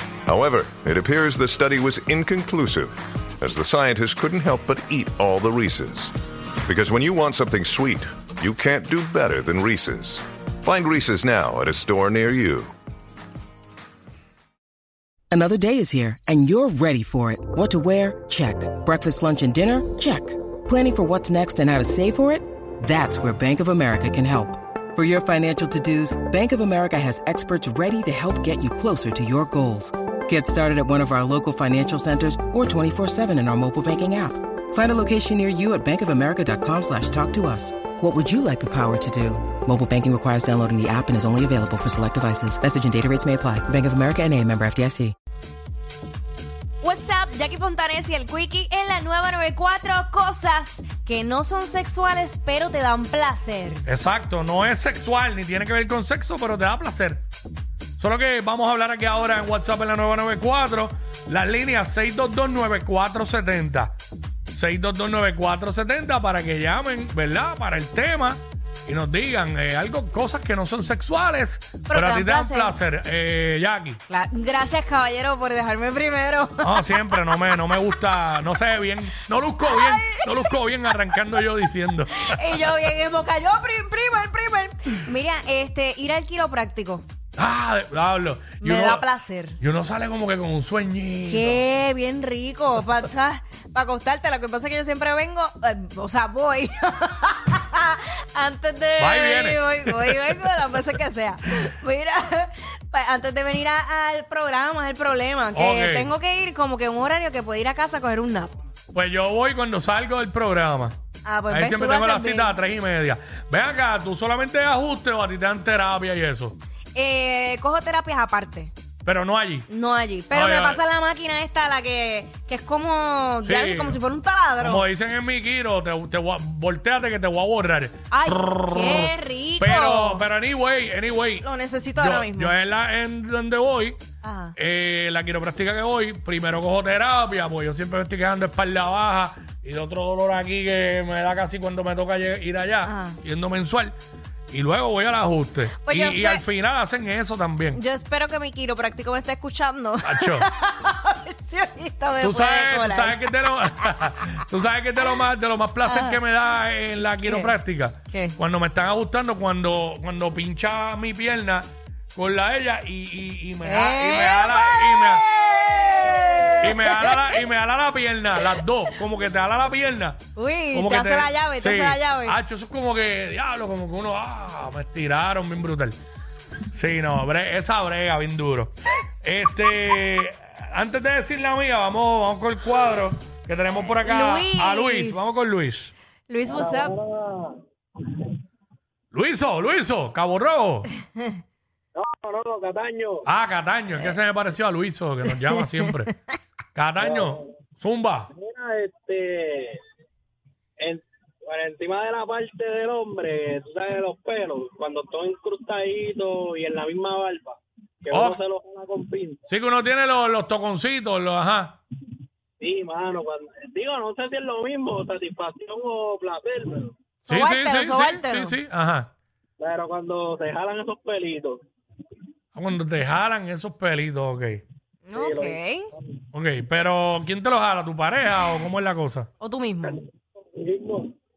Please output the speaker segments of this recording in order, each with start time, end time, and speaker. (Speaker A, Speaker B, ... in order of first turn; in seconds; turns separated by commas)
Speaker A: 0.2-6.1, Speaker A: 6.6-12.7, Speaker B: 15.3-45.1, Speaker C: 46.8-53.9, Speaker D: 53.9-57.2, Speaker D: 58.0-63.9, Speaker D: 64.5-74.0, Speaker C: 71.9-72.7, Speaker C: 74.1-77.2, Speaker D: 76.6-82.4, Speaker C: 79.6-80.3, Speaker C: 82.1-87.0, Speaker D: 87.3-89.0, Speaker C: 88.6-89.6, Speaker D: 89.6-91.6, Speaker C: 91.3-108.5, Speaker D: 99.0-100.8, Speaker D: 105.5-106.1, Speaker D: 108.9-111.0, Speaker C: 111.2-112.6, Speaker D: 111.5-116.6, Speaker C: 116.9-118.7, Speaker D: 119.0-119.7, Speaker C: 119.7-124.8, Speaker D: 120.3-120.8, Speaker D: 123.4-124.0, Speaker D: 124.6-131.4, Speaker C: 128.1-130.2, Speaker C: 131.4-132.5, Speaker D: 132.0-134.0, Speaker C: 134.2-134.5, Speaker D: 134.6-143.9, Speaker C: 142.8-143.2, Speaker D: 144.5-147.8, Speaker C: 145.8-146.4, Speaker C: 147.7-153.2, Speaker D: 150.0-150.5, Speaker D: 152.2-165.2, Speaker C: 155.8-156.2, Speaker C: 157.2-157.5, Speaker C: 158.1-158.4, Speaker C: 163.6-167.4, Speaker D: 166.6-170.2, Speaker C: 170.3-172.4, Speaker D: 170.7-176.0, Speaker D: 176.7-185.9, Speaker C: 184.0-185.5, Speaker C: 186.3-187.0, Speaker E: 186.4-188.1, Speaker D: 189.1-190.9, Speaker E: 191.9-193.2, Speaker D: 193.2-196.1, Speaker D: 196.7-198.3, Speaker E: 197.0-197.4, Speaker E: 198.3-199.8, Speaker E: 200.8-209.4, Speaker D: 208.1-208.4, Speaker D: 209.5-211.8, Speaker E: 212.6-216.9, Speaker D: 217.2-219.1, Speaker C: 217.3-218.5, Speaker E: 219.6-221.6, Speaker D: 222.5-224.6, Speaker C: 225.1-225.9, Speaker E: 225.1-226.1, Speaker D: 226.3-229.3, Speaker C: 229.4-230.0, Speaker E: 230.5-231.1